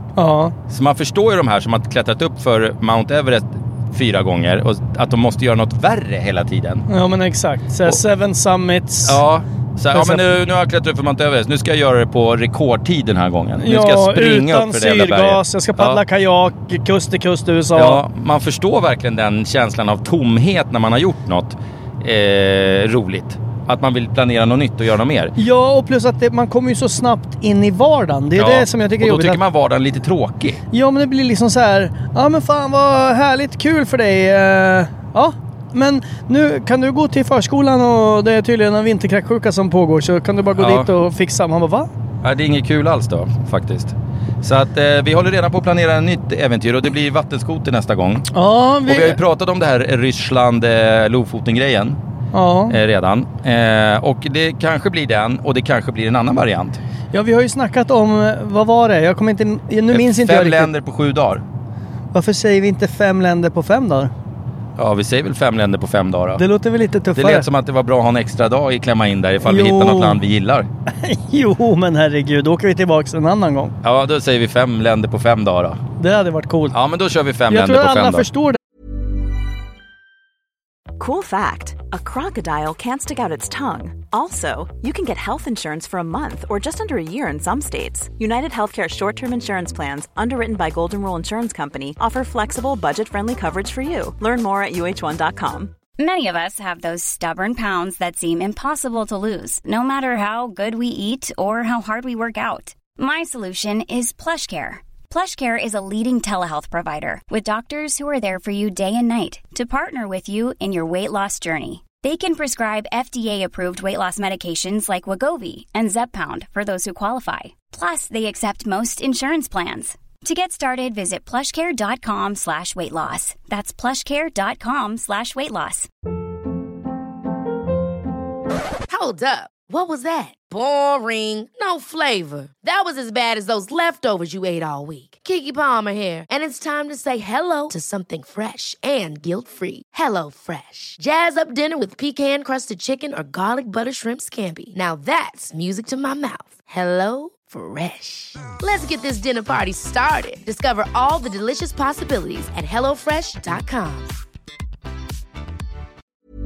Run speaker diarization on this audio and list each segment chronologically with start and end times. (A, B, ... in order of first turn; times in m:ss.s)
0:00.2-0:00.5 A
0:00.7-0:06.9 B
0:06.9-0:09.2 A
0:09.0-0:16.0 B
0:09.9-0:10.2 A
0:13.6-0:18.0 A
0:17.8-0:25.3 B
0:25.4-0:29.4 A
0:28.4-0:30.6 B
0:30.7-0:41.9 A
0:40.6-0:40.9 B
0:42.2-0:48.3 B
0:48.3-0:49.2 A
0:48.8-0:52.0 B
0:52.3-0:52.8 A
0:52.7-0:56.8 B
0:57.1-1:00.7 A
0:59.9-1:01.4 B
1:02.1-1:04.1 A
1:04.8-1:06.4 B
1:06.4-1:07.5 A
1:07.1-1:10.7 B
1:09.4-1:10.2 A
1:11.0-1:13.7 A
1:13.8-1:15.8 B
1:16.0-1:16.8 A
1:16.7-1:18.3 B
1:17.5-1:18.6 A
1:21.0-1:35.8 C
1:36.0-2:05.9 D
2:08.9-2:34.2 E